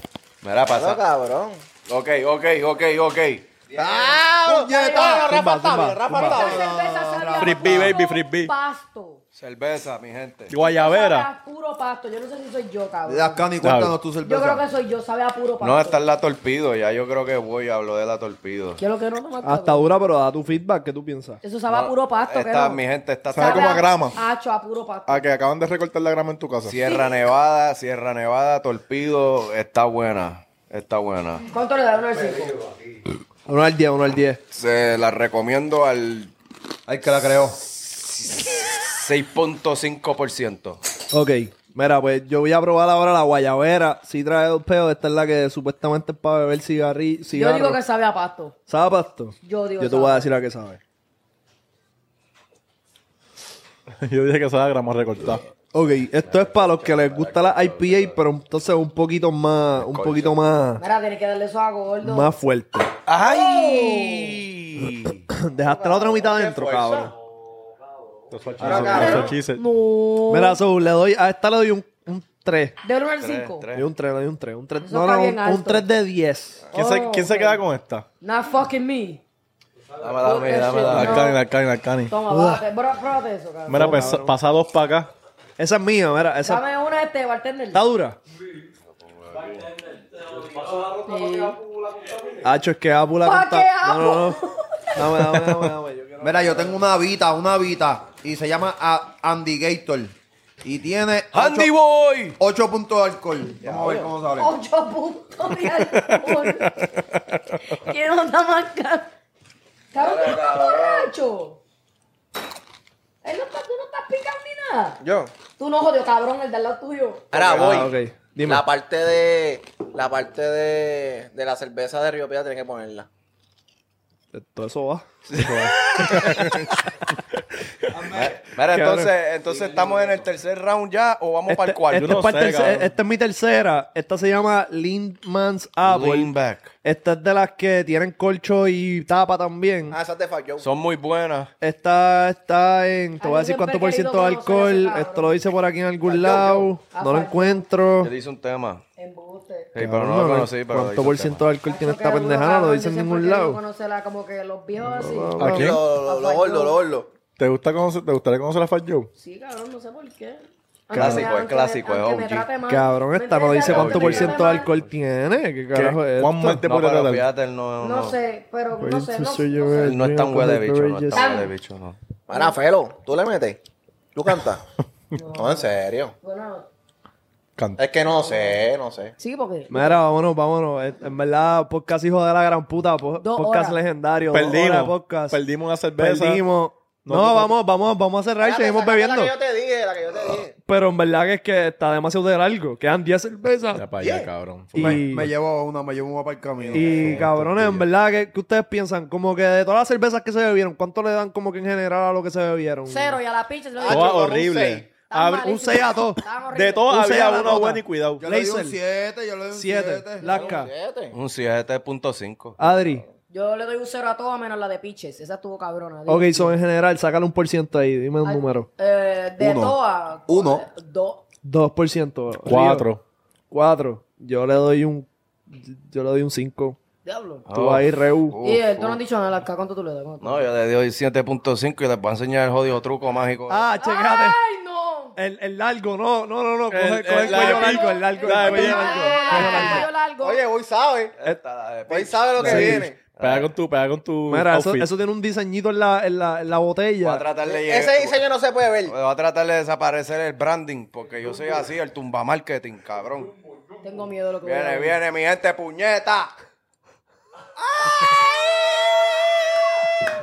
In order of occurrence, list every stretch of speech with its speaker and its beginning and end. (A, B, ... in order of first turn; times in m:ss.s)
0:00.4-0:01.0 A
0:00.7-0:01.6 B
0:01.8-0:03.5 A
0:03.7-0:05.4 C
0:03.7-0:06.7 B
0:04.6-0:05.3 D
0:05.2-0:06.4 E
0:06.1-0:07.9 C
0:06.2-0:09.2 D
0:07.4-0:08.5 F
0:09.3-0:10.5 A
0:10.5-0:11.3 F
0:10.6-0:13.5 D
0:13.1-0:14.6 C
0:13.6-0:14.0 F
0:14.2-0:16.0 D
0:15.6-0:18.8 A
0:18.8-0:20.0 D
0:19.4-0:21.4 E
0:21.4-0:22.8 D
0:21.7-0:24.0 A
0:23.3-0:24.2 F
0:23.3-0:25.4 D
0:25.1-0:26.8 F
0:26.6-0:31.5 A
0:26.8-0:27.2 D
0:31.5-0:32.6 D
0:33.5-0:34.4 E
0:34.5-0:36.3 A
0:36.8-0:37.6 C
0:38.7-0:40.8 A
0:41.1-0:47.8 E
0:47.3-0:48.6 D
0:48.7-0:50.8 E
0:49.4-0:50.3 D
0:54.0-0:55.4 F
0:55.7-1:00.8 E
0:56.2-0:58.2 A
0:59.7-1:00.4 A
1:00.8-1:02.3 D
1:02.0-1:02.9 E
1:03.1-1:05.2 A
1:03.2-1:04.4 D
1:05.3-1:07.1 E
1:05.6-1:07.1 B
1:08.3-1:09.6 F
1:08.6-1:09.3 A
1:08.6-1:09.1 E
1:08.6-1:09.3 B
1:08.8-1:10.6 D
1:10.3-1:12.7 E
1:12.8-1:13.7 D
1:13.2-1:13.8 A
1:13.7-1:16.6 E
1:14.8-1:15.8 D
1:16.7-1:17.6 D
1:16.7-1:18.1 F
1:18.2-1:19.2 D
1:20.0-1:21.3 A
1:20.2-1:21.4 D
1:20.9-1:22.1 F
1:22.1-1:23.9 D
1:22.3-1:22.6 E
1:23.7-1:25.1 F
1:23.7-1:24.3 E
1:25.6-1:26.6 E
1:26.4-1:27.8 D
1:27.7-1:28.2 E
1:29.0-1:29.7 A
1:29.9-1:31.0 F
1:31.0-1:31.6 D
1:31.6-1:32.4 F
1:32.4-1:34.4 E
1:33.2-1:35.7 D
1:34.9-1:36.8 E
1:36.2-1:41.7 C
1:41.3-1:42.4 A
1:42.4-1:44.5 C
1:43.6-1:44.1 B
1:44.4-1:46.7 D
1:45.8-1:47.4 F
1:47.7-1:49.1 D
1:49.9-1:51.6 D
1:49.9-1:51.1 A
1:53.2-1:55.0 D
1:55.0-1:55.3 B
1:55.6-1:57.4 D
1:57.3-2:03.1 B
1:57.3-1:57.9 A
1:57.5-1:58.6 E
2:04.3-2:05.0 E
2:05.3-2:06.6 A
2:05.4-2:06.7 F
2:07.9-2:09.1 E
2:08.1-2:12.2 A
2:09.5-2:10.2 B
2:11.5-2:16.3 E
2:12.0-2:12.9 F
2:15.8-2:16.7 A
2:16.8-2:20.0 E
2:19.9-2:20.6 B
2:20.6-2:21.5 A
2:21.6-2:28.1 E
2:23.2-2:25.4 D
2:26.0-2:26.7 B
2:26.9-2:27.7 D
2:28.0-2:28.8 A
2:29.0-2:29.7 D
2:29.7-2:31.4 A
2:29.8-2:33.6 E
2:31.6-2:36.8 D
2:34.8-2:35.8 E
2:35.4-2:35.8 F
2:35.4-2:37.1 B
2:37.4-2:39.1 F
2:39.2-2:44.7 D
2:40.9-2:41.3 E
2:40.9-2:42.5 A
2:42.7-2:46.6 E
2:43.6-2:44.7 A
2:45.7-2:47.3 F
2:46.6-2:48.2 A
2:47.8-2:50.0 D
2:48.8-2:51.3 E
2:49.8-2:52.0 A
2:51.1-2:51.5 D
2:52.3-2:53.6 B
2:54.1-2:54.6 B
2:55.2-2:55.6 D
2:55.3-2:56.1 B
2:56.2-2:56.7 D
2:57.8-2:59.1 B
2:59.2-3:00.0 D
2:59.7-3:05.4 E
3:03.2-3:03.8 D
3:04.3-3:06.4 F
3:05.9-3:09.3 E
3:07.0-3:07.5 F
3:08.4-3:10.6 B
3:10.6-3:13.8 E
3:13.7-3:15.0 F
3:14.0-3:14.3 B
3:14.7-3:15.3 E
3:14.8-3:17.3 C
3:16.6-3:17.2 B
3:16.7-3:23.2 E
3:16.9-3:17.8 A
3:22.9-3:24.2 D
3:23.8-3:24.9 B
3:23.9-3:25.5 F
3:24.9-3:27.0 D
3:25.3-3:26.2 E
3:26.5-3:28.2 F
3:26.8-3:28.8 E
3:28.2-3:30.4 C
3:29.5-3:30.7 E
3:30.2-3:31.1 B
3:31.1-3:32.6 A
3:32.6-3:33.0 E
3:32.7-3:33.1 B
3:33.3-3:36.6 D
3:36.1-3:38.7 E
3:38.2-3:41.2 D
3:39.4-3:40.6 C
3:41.4-3:42.9 E
3:42.4-3:43.0 F
3:43.5-3:46.8 E
3:47.0-3:47.5 D
3:47.5-3:49.0 A
3:47.5-3:48.4 E
3:48.4-3:50.5 D
3:50.2-3:53.6 A
3:53.5-3:54.4 E
3:53.7-3:55.2 D
3:55.2-3:59.9 E
3:56.7-3:59.3 F
3:57.3-4:00.4 D
3:59.3-4:01.1 B
4:01.2-4:03.5 A
4:01.9-4:03.0 B
4:02.4-4:02.9 E
4:03.2-4:04.9 F
4:04.3-4:07.2 E
4:07.0-4:08.2 A
4:07.4-4:08.9 B
4:08.8-4:13.3 A
4:13.8-4:15.0 D
4:14.4-4:16.3 A
4:17.6-4:19.8 C